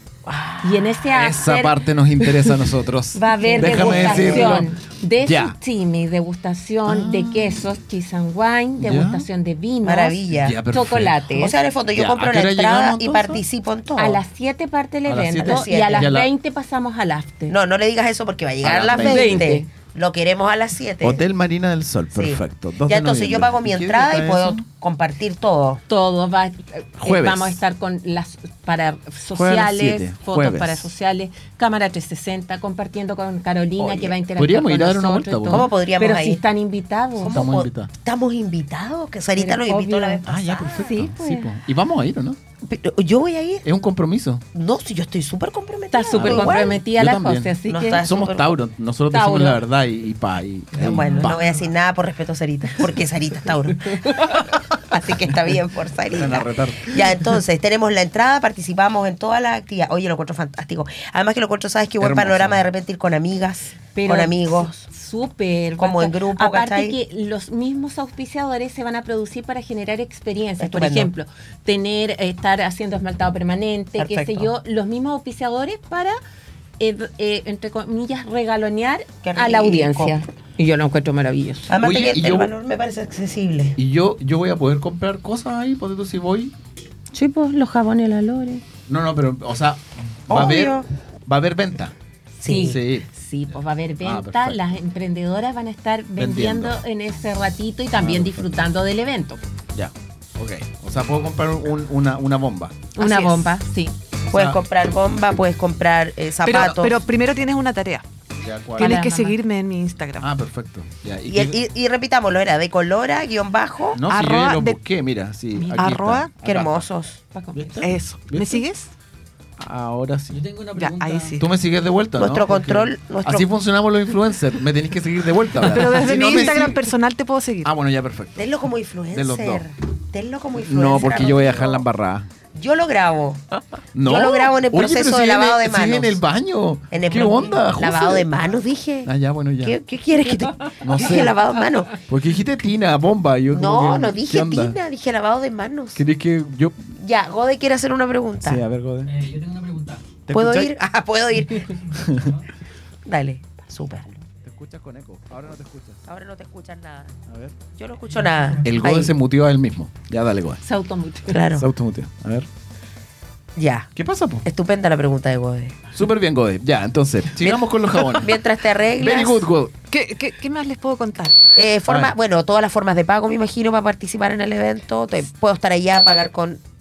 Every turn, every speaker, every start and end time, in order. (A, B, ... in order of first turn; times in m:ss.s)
0:00.2-0:00.9 A
0:00.6-0:02.5 B
0:01.1-0:04.7 C
0:03.1-0:10.2 B
0:03.4-0:04.7 A
0:05.2-0:05.6 C
0:06.9-0:07.6 C
0:08.8-0:09.3 C
0:09.8-0:10.6 A
0:10.3-0:11.2 C
0:10.7-0:11.6 B
0:11.3-0:14.2 A
0:11.9-0:13.4 C
0:14.0-0:17.6 B
0:15.0-0:16.3 C
0:15.4-0:16.1 A
0:17.5-0:21.2 A
0:18.6-0:19.5 C
0:18.9-0:19.7 B
0:21.0-0:24.6 C
0:22.1-0:25.8 A
0:25.9-0:37.4 B
0:27.0-0:27.6 C
0:29.3-0:30.9 C
0:33.8-0:34.1 A
0:34.4-0:35.7 C
0:35.5-0:36.4 A
0:37.2-0:40.9 A
0:37.2-0:37.9 C
0:39.4-0:41.5 B
0:40.2-0:42.4 C
0:42.6-0:43.7 A
0:43.6-0:44.4 C
0:44.5-0:46.8 A
0:45.9-0:48.0 B
0:46.2-0:51.4 C
0:47.7-0:48.6 A
0:49.1-0:49.6 B
0:50.8-1:04.8 A
0:56.1-0:56.9 C
1:02.0-1:02.6 C
1:03.9-1:16.2 B
1:05.8-1:07.0 A
1:10.6-1:11.1 A
1:14.0-1:14.5 A
1:16.8-1:21.7 B
1:19.2-1:20.2 A
1:21.7-1:23.8 A
1:21.8-1:22.5 C
1:23.8-1:26.5 C
1:27.1-1:28.6 B
1:28.9-1:31.9 C
1:30.3-1:30.9 A
1:32.4-1:32.8 A
1:32.4-1:39.4 B
1:32.5-1:33.1 C
1:34.0-1:34.6 C
1:36.2-1:36.8 C
1:38.0-1:38.5 C
1:39.7-1:42.9 C
1:43.0-1:43.9 B
1:43.0-1:43.5 A
1:44.3-1:44.6 C
1:44.3-1:47.0 A
1:46.4-1:48.0 D
1:46.5-1:46.8 C
1:48.4-1:49.0 C
1:48.8-1:50.3 D
1:48.8-1:49.4 B
1:50.2-1:51.6 C
1:51.3-1:54.0 A
1:53.9-1:56.9 C
1:54.0-1:54.8 D
1:55.6-1:56.3 D
1:56.4-1:57.2 A
1:57.3-1:57.9 B
1:57.5-1:58.6 C
1:57.8-1:58.9 D
1:59.6-2:00.4 C
2:00.3-2:01.4 E
2:00.7-2:01.4 D
2:01.4-2:06.9 C
2:02.2-2:03.5 A
2:05.6-2:07.7 D
2:07.6-2:08.5 C
2:08.4-2:11.8 A
2:09.1-2:09.7 C
2:10.5-2:12.3 C
2:12.5-2:13.4 A
2:13.9-2:18.4 C
2:14.0-2:16.2 A
2:16.9-2:22.0 A
2:19.0-2:19.8 C
2:20.8-2:21.4 C
2:22.0-2:24.8 C
2:23.5-2:26.0 A
2:25.9-2:26.9 C
2:26.9-2:28.6 A
2:28.4-2:29.2 C
2:29.0-2:30.0 E
2:30.3-2:30.7 C
2:30.3-2:32.0 A
2:31.9-2:32.4 C
2:33.0-2:34.1 A
2:34.2-2:36.0 C
2:36.0-2:37.2 A
2:37.3-2:37.6 C
2:37.7-2:39.1 A
2:38.6-2:40.6 C
2:40.6-2:41.4 B
2:41.3-2:41.7 A
2:41.5-2:42.5 C
2:43.6-2:43.9 A
2:43.9-2:44.4 C
2:44.4-2:45.8 A
2:45.9-2:49.7 C
2:47.4-2:49.4 A
2:49.9-2:51.4 D
2:51.5-2:56.6 A
2:51.9-2:52.1 C